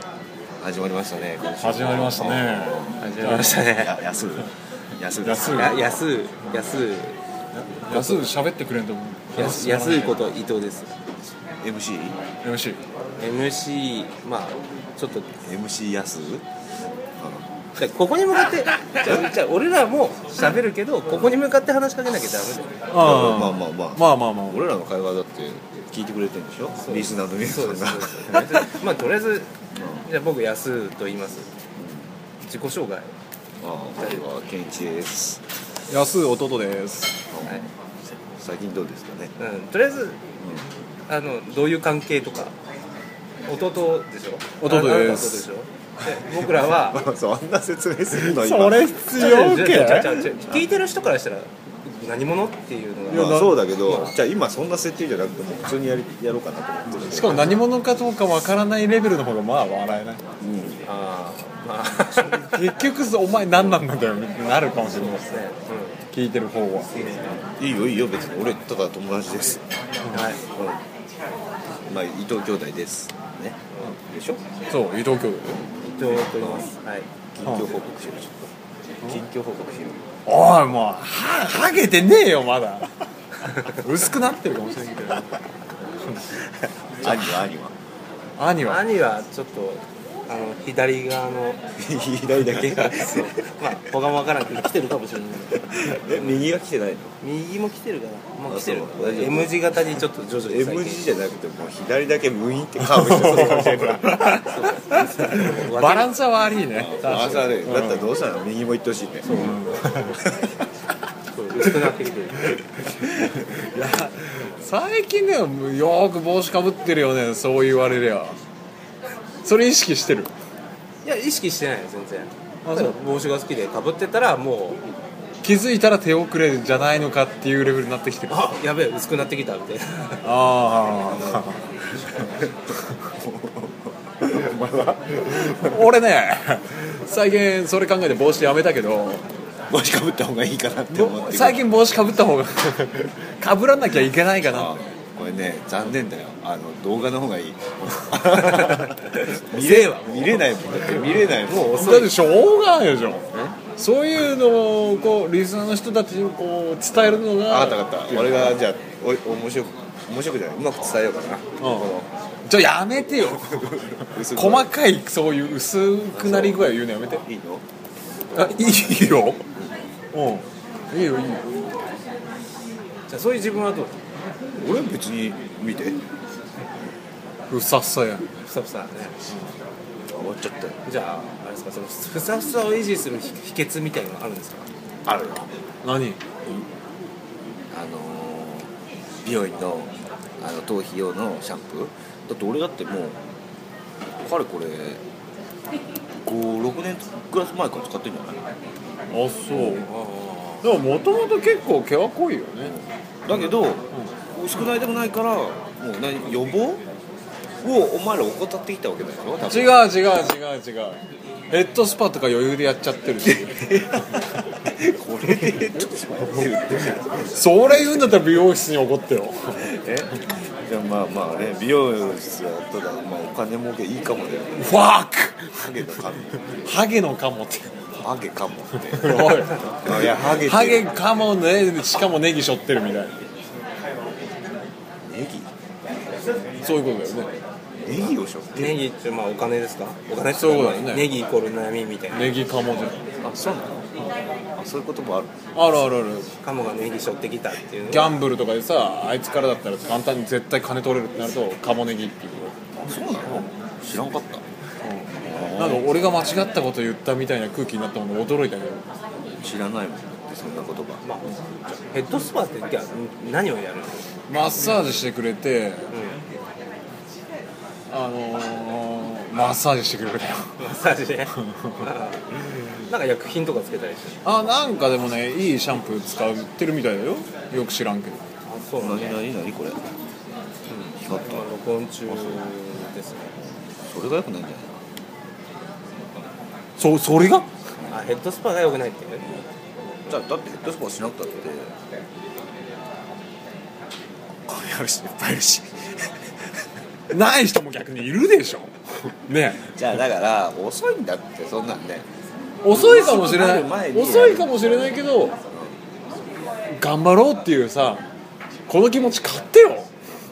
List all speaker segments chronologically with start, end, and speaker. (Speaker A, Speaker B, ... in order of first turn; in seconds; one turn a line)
Speaker A: 0.6-3.1
Speaker B: 1.6-3.6
Speaker C: 3.0-3.9
Speaker A: 3.7-6.0
Speaker B: 5.2-5.9
Speaker C: 5.5-7.2
Speaker B: 7.6-10.3
Speaker C: 7.9-8.3
Speaker C: 9.3-11.2
Speaker A: 11.6-12.2
Speaker B: 12.4-12.8
Speaker C: 13.2-15.3
Speaker A: 15.4-16.5
Speaker A: 17.1-17.5
Speaker C: 17.8-22.8
Speaker B: 22.9-24.6
Speaker A: 23.0-28.7
Speaker C: 26.8-29.5
Speaker A: 29.7-30.1
Speaker C: 30.1-31.5
Speaker A: 31.8-32.1
Speaker C: 32.4-33.1
Speaker A: 33.6-35.4
Speaker B: 35.9-37.2
Speaker A: 37.3-37.6
Speaker A: 38.4-39.3
Speaker C: 39.4-40.2
Speaker A: 40.4-40.7
Speaker C: 41.1-42.5
Speaker C: 43.5-47.0
Speaker B: 44.6-45.4
Speaker A: 46.4-49.5
Speaker B: 48.1-50.3
Speaker C: 49.1-54.1
Speaker B: 53.1-53.6
Speaker A: 53.1-57.6
Speaker B: 57.0-60.2
Speaker A: 60.4-60.8
Speaker C: 60.9-62.5
Speaker A: 62.0-62.6
Speaker B: 62.4-65.2
Speaker A: 63.5-63.8
Speaker C: 64.7-66.0
Speaker B: 66.1-66.9
Speaker C: 66.9-67.4
Speaker A: 67.5-69.7
Speaker C: 70.1-70.4
Speaker A: 70.3-70.8
Speaker A: 71.8-74.4
Speaker B: 74.7-75.6
Speaker C: 75.9-77.1
Speaker A: 76.3-76.7
Speaker A: 77.3-78.5
Speaker B: 77.4-77.7
Speaker A: 79.0-80.0
Speaker B: 80.2-82.9
Speaker B: 83.6-85.4
Speaker B: 86.1-86.3
Speaker A: 87.0-87.8
Speaker B: 87.0-87.4
Speaker B: 88.4-88.8
Speaker C: 88.6-91.6
Speaker A: 91.8-93.6
Speaker C: 92.5-96.4
Speaker A: 95.7-97.1
Speaker C: 97.2-101.1
Speaker A: 98.5-99.6
Speaker A: 100.5-104.4
Speaker B: 103.1-108.1
Speaker C: 104.3-106.2
Speaker A: 106.8-109.6
Speaker C: 107.0-107.6
Speaker B: 109.3-110.2
Speaker A: 110.2-110.6
Speaker C: 111.3-112.5
Speaker B: 113.3-118.4
Speaker B: 119.4-120.3
Speaker C: 121.0-124.8
Speaker B: 122.6-123.0
Speaker B: 125.4-128.5
Speaker C: 128.3-130.2
Speaker B: 130.2-131.6
Speaker A: 132.1-135.7
Speaker B: 135.4-139.2
Speaker A: 139.7-141.7
Speaker B: 140.9-144.7
Speaker A: 144.5-151.9
Speaker C: 148.5-152.2
Speaker B: 151.7-158.6
Speaker A: 157.2-162.1
Speaker B: 161.6-167.2
Speaker A: 163.3-164.7
Speaker A: 166.1-166.7
Speaker A: 167.2-167.6
Speaker B: 168.3-169.4
Speaker A: 169.6-169.8
Speaker B: 170.1-171.6
Speaker C: 173.1-174.1
Speaker A: 174.6-176.0
Speaker B: 177.5-178.3
Speaker C: 178.4-179.2
Speaker A: 180.1-180.8
Speaker C: 180.8-184.7
Speaker A: 185.1-185.5
Speaker B: 185.8-186.2
Speaker A: 187.7-188.7
Speaker A: 189.2-193.2
Speaker A: 194.2-195.0
Speaker A: 196.2-198.5
Speaker B: 199.1-199.9
Speaker C: 199.5-200.6
Speaker B: 200.6-202.8
Speaker A: 202.6-206.8
Speaker A: 207.6-209.9
Speaker B: 209.4-211.0
Speaker B: 211.5-213.6
Speaker A: 213.2-217.7
Speaker B: 217.2-219.6
Speaker A: 219.6-220.1
Speaker A: 220.6-224.7
Speaker B: 224.6-225.6
Speaker A: 225.5-226.4
Speaker B: 226.6-227.7
Speaker A: 228.0-230.9
Speaker B: 228.8-233.2
Speaker A: 235.0-235.5
Speaker B: 236.6-237.3
Speaker A: 237.8-238.8
Speaker C: 238.5-242.4
Speaker B: 240.3-241.1
Speaker B: 242.1-243.1
Speaker A: 243.2-243.9
Speaker A: 244.6-245.3
Speaker B: 245.5-246.3
Speaker C: 246.4-248.2
Speaker B: 247.9-252.6
Speaker A: 252.8-254.4
Speaker B: 254.8-258.9
Speaker A: 255.2-256.3
Speaker A: 259.4-261.1
Speaker C: 261.0-264.1
Speaker B: 264.3-265.8
Speaker C: 265.9-266.2
Speaker B: 267.9-270.5
Speaker C: 270.6-274.2
Speaker B: 271.4-271.8
Speaker B: 274.2-278.2
Speaker C: 278.4-279.2
Speaker A: 278.8-279.9
Speaker C: 280.7-283.3
Speaker A: 281.0-281.5
Speaker A: 282.1-282.5
Speaker A: 283.6-284.8
Speaker B: 286.8-287.5
Speaker C: 287.9-289.2
Speaker A: 290.1-291.8
Speaker B: 294.5-295.4
Speaker A: 294.8-295.7
Speaker B: 297.1-299.8
Speaker A: 299.6-302.1
Speaker B: 302.6-305.4
Speaker A: 302.7-306.5
Speaker B: 306.7-308.0
Speaker B: 308.7-309.9